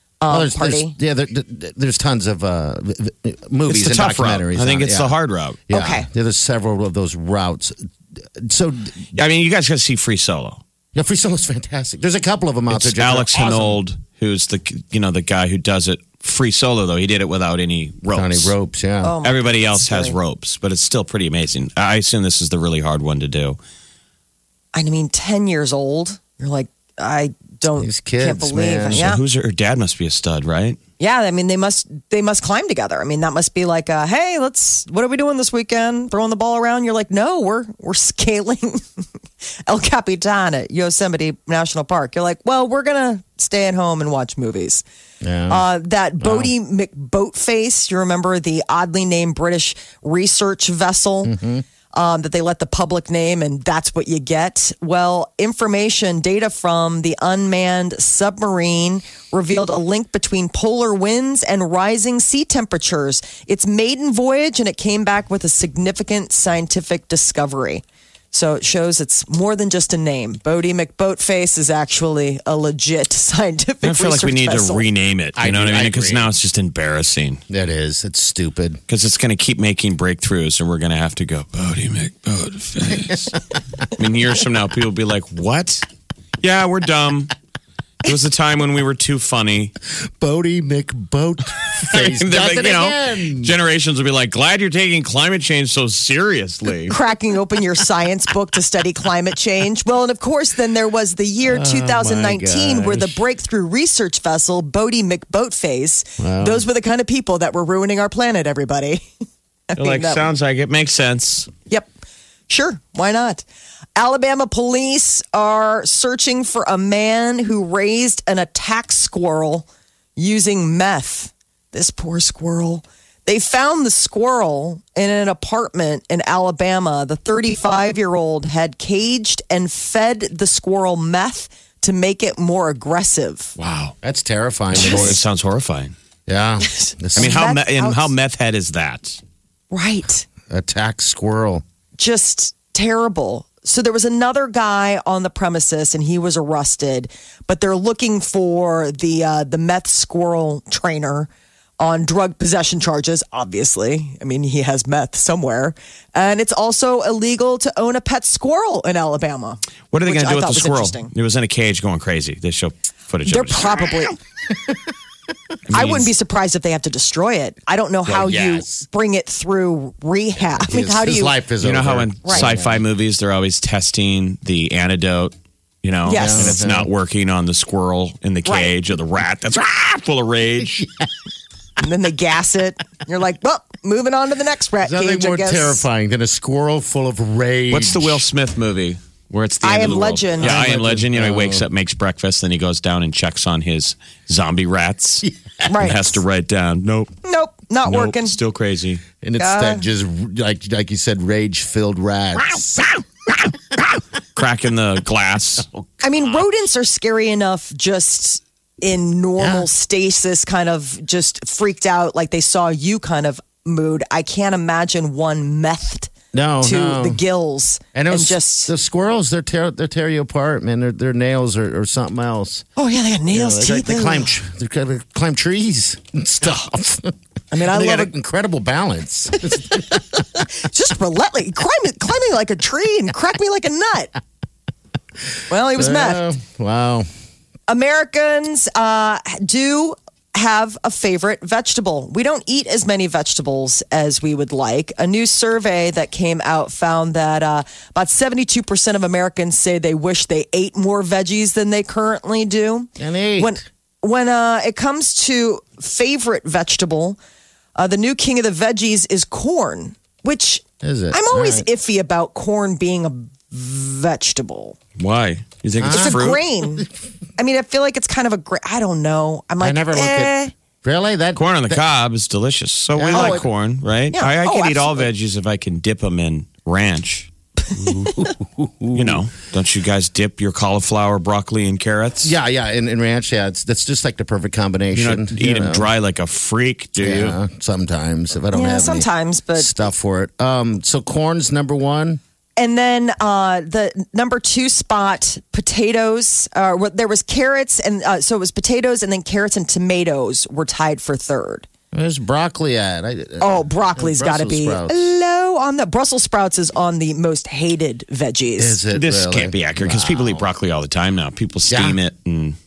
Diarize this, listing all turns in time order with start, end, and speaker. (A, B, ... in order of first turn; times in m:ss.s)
0:00.2-0:00.9 A
0:00.3-0:05.1 B
0:03.7-0:05.6 C
0:05.7-0:09.0 B
0:05.7-0:06.0 A
0:09.1-0:10.6 C
0:10.9-0:13.8 B
0:12.7-0:18.5 C
0:18.1-0:19.2 B
0:19.0-0:20.2 A
0:19.2-0:23.6 C
0:24.7-0:29.2 A
0:27.8-0:29.1 B
0:28.9-0:30.8 C
0:31.0-0:38.8 A
0:39.6-0:44.8 A
0:45.2-0:45.6 B
0:45.5-0:51.4 A
0:46.2-0:46.5 B
0:51.2-0:51.6 B
0:51.9-1:14.8 A
1:13.8-1:17.4 C
1:15.4-1:16.3 B
1:17.5-1:18.8 B
1:18.9-1:23.3 C
1:23.0-1:23.2 B
1:23.9-1:25.8 C
1:26.4-1:27.3 C
1:28.0-1:29.7 C
1:30.1-1:33.5 B
1:31.9-1:37.0 C
1:36.9-1:49.0 A
1:41.4-1:43.2 B
1:46.2-1:46.6 B
1:49.7-1:50.2 A
1:49.8-1:51.5 C
1:52.5-1:53.4 A
1:54.0-2:13.5 A
2:13.6-2:13.9 C
2:14.0-2:15.2 B
2:14.7-2:15.9 C
2:14.8-2:15.1 A
2:16.3-2:17.4 B
2:16.7-2:18.1 A
2:17.2-2:19.2 C
2:19.7-2:20.2 A
2:20.5-2:21.6 B
2:22.0-2:31.3 A
2:31.8-2:41.1 A
2:39.9-2:43.9 C
2:43.2-2:44.2 A
2:45.7-2:46.1 C
2:45.7-2:51.3 A
2:48.0-2:48.8 B
2:50.5-2:52.8 B
2:51.6-3:00.8 C
2:52.2-2:52.5 A
2:56.0-2:56.6 A
2:56.1-2:56.9 B
2:58.4-2:58.7 A
3:00.6-3:01.0 B
3:01.8-3:05.8 A
3:04.8-3:08.2 B
3:07.7-3:17.1 C
3:09.6-3:10.6 A
3:10.4-3:11.6 B
3:15.6-3:16.2 A
3:17.2-3:18.4 A
3:17.8-3:19.0 C
3:19.2-3:22.9 B
3:19.4-3:19.8 A
3:24.4-3:25.7 C
3:25.7-3:26.4 B
3:26.0-3:38.7 A
3:29.4-3:29.7 B
3:36.3-3:37.2 B
3:37.9-3:42.6 B
3:42.8-3:44.3 A
3:43.3-3:50.0 B
3:47.5-3:48.1 A
3:49.5-3:54.1 A
3:55.5-3:56.2 A
3:55.7-3:57.1 B
3:57.7-4:17.2 A
4:13.0-4:13.6 B
4:17.8-4:24.8 A
4:20.8-4:21.7 B
4:25.0-4:26.4 C
4:25.8-4:26.9 B
4:25.9-4:26.9 A
4:27.4-4:30.5 A
4:29.6-4:31.8 B
4:31.4-4:37.3 C
4:32.9-4:33.5 B
4:33.1-4:33.4 A
4:34.1-4:35.0 A
4:37.8-4:39.2 B
4:38.9-4:42.3 C
4:42.2-4:45.9 B
4:44.9-4:47.4 C
4:47.0-4:52.2 B
4:48.5-4:49.7 A
4:52.6-5:01.7 A
5:01.9-5:05.1 B
5:03.4-5:08.8 A
5:08.6-5:10.4 B
5:08.9-5:12.6 C
5:11.7-5:12.0 B